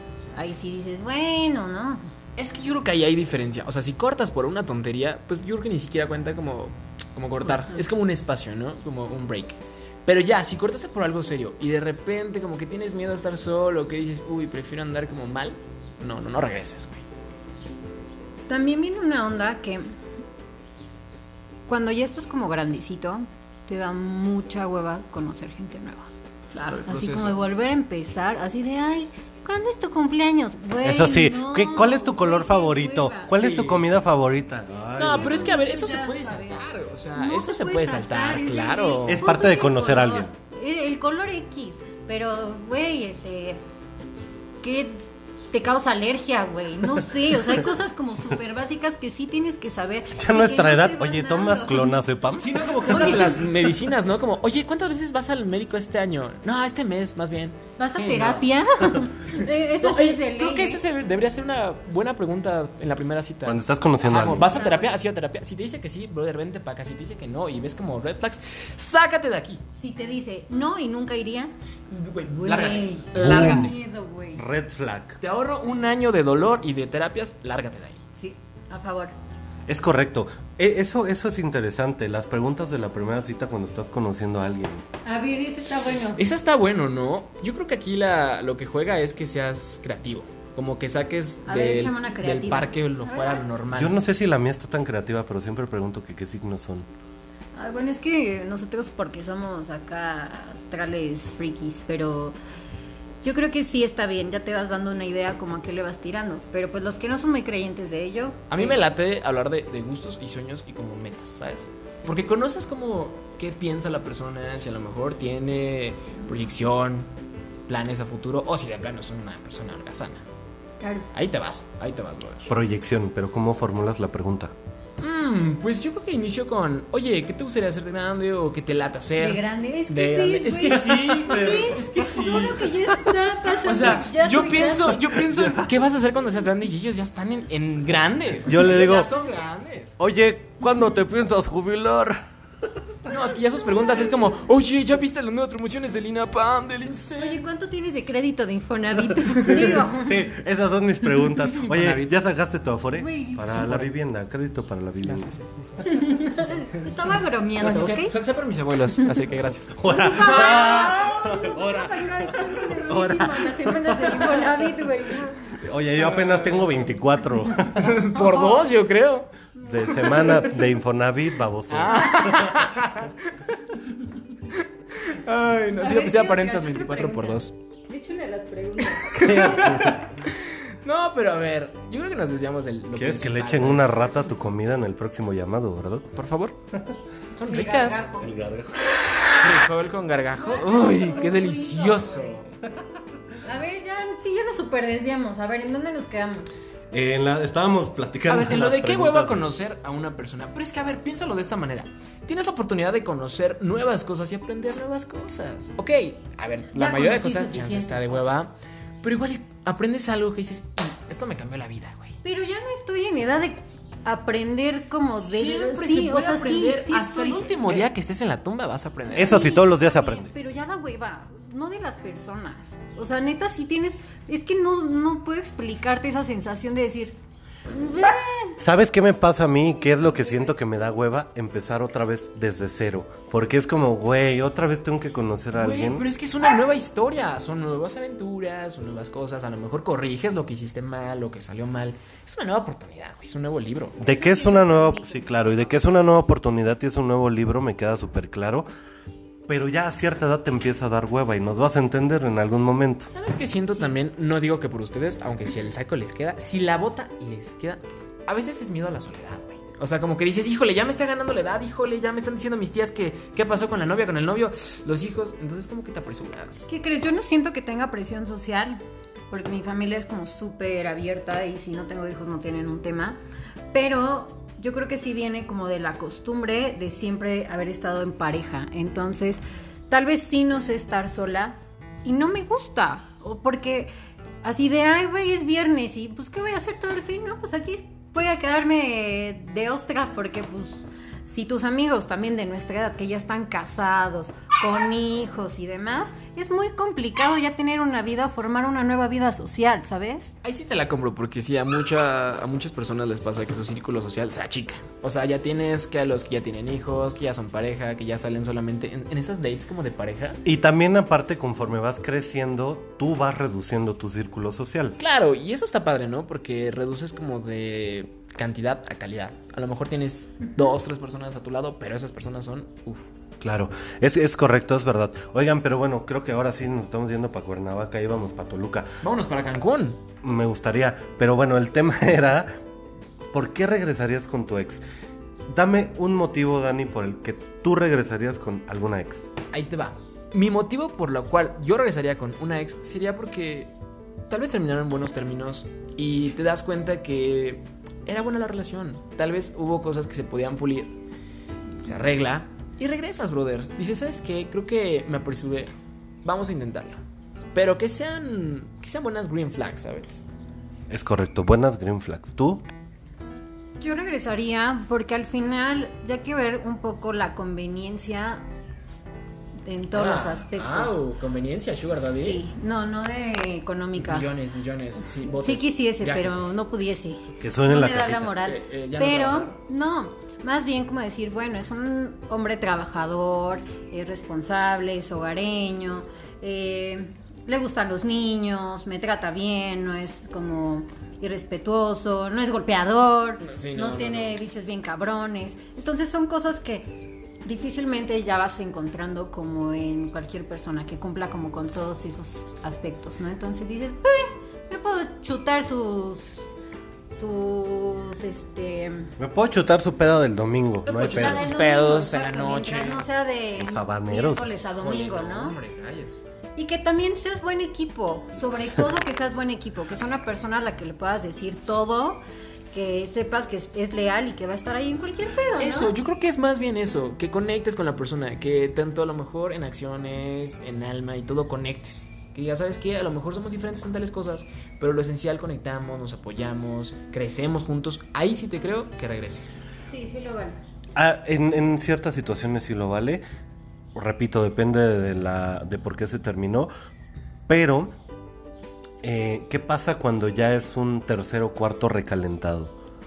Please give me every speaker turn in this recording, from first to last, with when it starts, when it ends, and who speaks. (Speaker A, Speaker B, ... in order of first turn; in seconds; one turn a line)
Speaker A: 0.3-2.0
Speaker B: 2.4-17.1
Speaker A: 7.6-7.8
Speaker A: 18.5-19.9
Speaker A: 21.7-26.1
Speaker B: 26.5-27.4
Speaker A: 26.9-33.4
Speaker C: 30.8-35.6
Speaker B: 33.3-33.9
Speaker B: 35.0-39.3
Speaker A: 35.1-36.6
Speaker A: 37.1-43.6
Speaker C: 39.0-40.3
Speaker A: 44.6-45.0
Speaker A: 45.5-51.9
Speaker C: 50.1-53.5
Speaker B: 52.4-58.5
Speaker A: 52.9-53.4
Speaker A: 57.8-60.8
Speaker B: 59.8-69.6
Speaker C: 63.4-64.5
Speaker A: 64.2-65.0
Speaker A: 69.8-71.5
Speaker B: 71.9-73.7
Speaker A: 72.4-74.4
Speaker C: 73.2-73.7
Speaker C: 74.3-75.2
Speaker B: 75.2-78.0
Speaker A: 78.2-79.1
Speaker C: 79.7-84.8
Speaker A: 85.0-86.2
Speaker B: 86.2-94.0
Speaker A: 91.5-93.4
Speaker C: 93.7-96.9
Speaker A: 97.5-102.3
Speaker A: 103.2-108.8
Speaker B: 108.5-117.1
Speaker B: 117.7-120.2
Speaker A: 120.8-121.1
Speaker B: 121.1-122.5
Speaker C: 122.5-124.5
Speaker B: 125.0-132.9
Speaker A: 129.2-135.2
Speaker B: 133.5-139.9
Speaker C: 135.3-135.7
Speaker C: 138.4-139.1
Speaker C: 140.0-142.2
Speaker B: 143.1-147.4
Speaker A: 147.2-150.2
Speaker C: 149.3-155.3
Speaker B: 151.2-152.2
Speaker A: 152.9-153.5
Speaker B: 153.4-153.9
Speaker B: 155.0-155.9
Speaker A: 155.8-158.2
Speaker B: 156.5-156.8
Speaker B: 157.6-160.8
Speaker C: 159.8-164.5
Speaker A: 159.9-165.5
Speaker C: 165.5-168.1
Speaker B: 166.0-166.8
Speaker B: 167.7-169.3
Speaker A: 168.1-168.6
Speaker C: 169.6-172.7
Speaker A: 169.9-170.4
Speaker B: 170.1-170.3
Speaker B: 171.7-173.3
Speaker A: 172.2-172.4
Speaker B: 174.5-177.5
Speaker A: 175.8-179.9
Speaker B: 178.8-184.2
Speaker C: 179.2-180.1
Speaker C: 182.9-186.1
Speaker B: 186.1-186.6
Speaker B: 187.3-188.1
Speaker A: 187.4-188.3
Speaker C: 188.1-188.9
Speaker B: 189.3-192.5
Speaker A: 190.4-192.4
Speaker C: 192.7-193.0
Speaker A: 193.4-196.5
Speaker C: 196.9-199.5
Speaker B: 198.3-212.2
Speaker A: 206.7-208.4
Speaker A: 212.2-217.5
Speaker B: 215.2-219.5
Speaker C: 219.1-220.3
Speaker A: 219.1-227.2
Speaker A: 227.7-228.6
Speaker C: 228.6-236.1
Speaker A: 230.0-230.5
Speaker B: 235.5-244.0
Speaker A: 244.0-245.8
Speaker C: 244.0-248.7
Speaker C: 249.5-253.1
Speaker B: 253.1-266.7
Speaker A: 266.7-268.8
Speaker A: 269.3-273.2
Speaker A: 273.7-283.9
Speaker A: 284.4-300.3
Speaker B: 300.4-310.4
Speaker C: 310.4-315.0
Speaker B: 315.0-323.1
Speaker C: 323.4-328.9
Speaker B: 329.0-330.0
Speaker C: 330.2-332.5
Speaker C: 333.3-334.8
Speaker C: 335.5-339.3
Speaker B: 339.5-343.7
Speaker B: 344.3-350.9
Speaker B: 351.8-355.7
Speaker B: 356.2-357.0
Speaker B: 357.5-360.2
Speaker C: 360.9-362.6
Speaker A: 363.8-368.4
Speaker A: 369.6-371.0
Speaker B: 369.9-372.4
Speaker A: 372.0-374.3
Speaker B: 374.0-376.5
Speaker A: 375.4-406.5
Speaker C: 377.4-378.3
Speaker B: 378.4-379.6
Speaker B: 393.4-394.4
Speaker A: 407.1-409.1
Speaker C: 409.2-411.5
Speaker B: 410.9-413.1
Speaker A: 411.0-415.6
Speaker C: 413.6-414.5
Speaker B: 414.7-416.2
Speaker A: 416.6-425.9
Speaker B: 425.6-439.6
Speaker A: 439.8-440.6
Speaker C: 440.9-443.2
Speaker C: 443.9-446.7
Speaker C: 447.5-447.9
Speaker C: 449.0-452.7